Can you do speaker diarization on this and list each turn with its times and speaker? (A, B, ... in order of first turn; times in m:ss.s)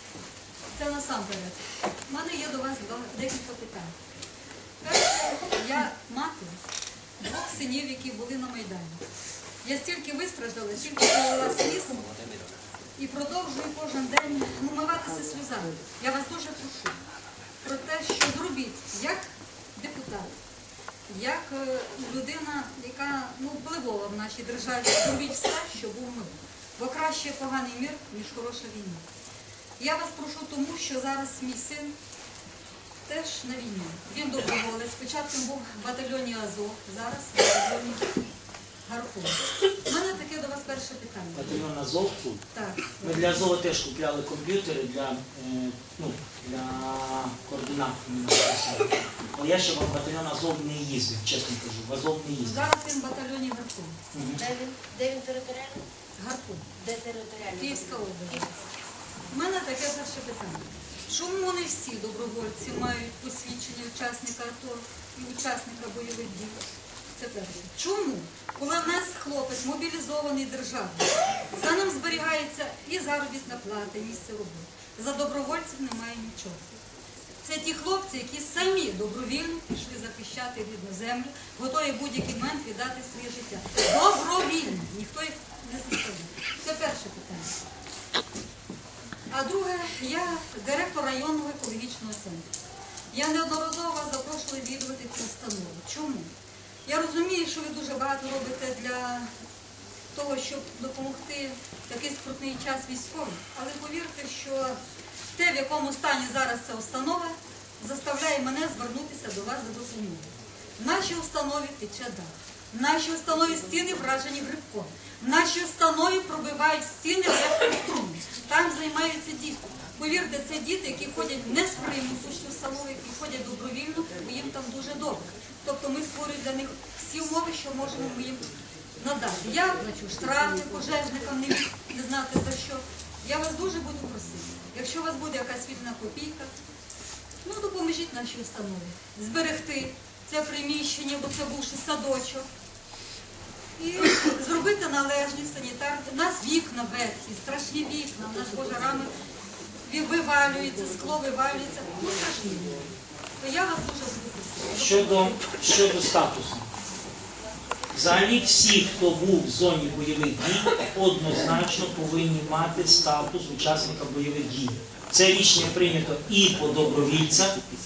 0:00.7-0:04.0 A
0:04.8-0:06.6 A
0:07.2-0:09.0 A
0:09.6-0:12.1 A
0:13.0-0:17.0 A
0:17.6-0:20.3 A
0:21.1-0:29.0 A
0:29.8-0:31.9 A
0:33.0-0:38.2 A
0:38.8-0:41.6 A
0:41.3-0:42.4 B
0:42.5-0:43.3 A
0:43.0-0:52.6 B
0:52.4-0:54.0 A
0:54.1-0:54.4 B
0:54.4-0:55.8 C
0:56.2-0:56.7 A
0:56.8-0:57.9 C
0:57.5-0:58.6 A
0:59.3-1:16.7 A
1:17.4-1:27.5 A
1:29.3-1:32.5 A
1:33.1-1:36.3 A
1:36.8-1:39.3 A
1:40.1-1:44.8 A
1:45.3-2:08.4 A
2:09.0-2:16.5 A
2:17.4-2:22.5 A
2:23.8-2:29.1 A
2:29.8-2:32.8 A
2:33.4-2:35.4 A
2:34.7-2:36.7 B
2:37.9-2:47.6 B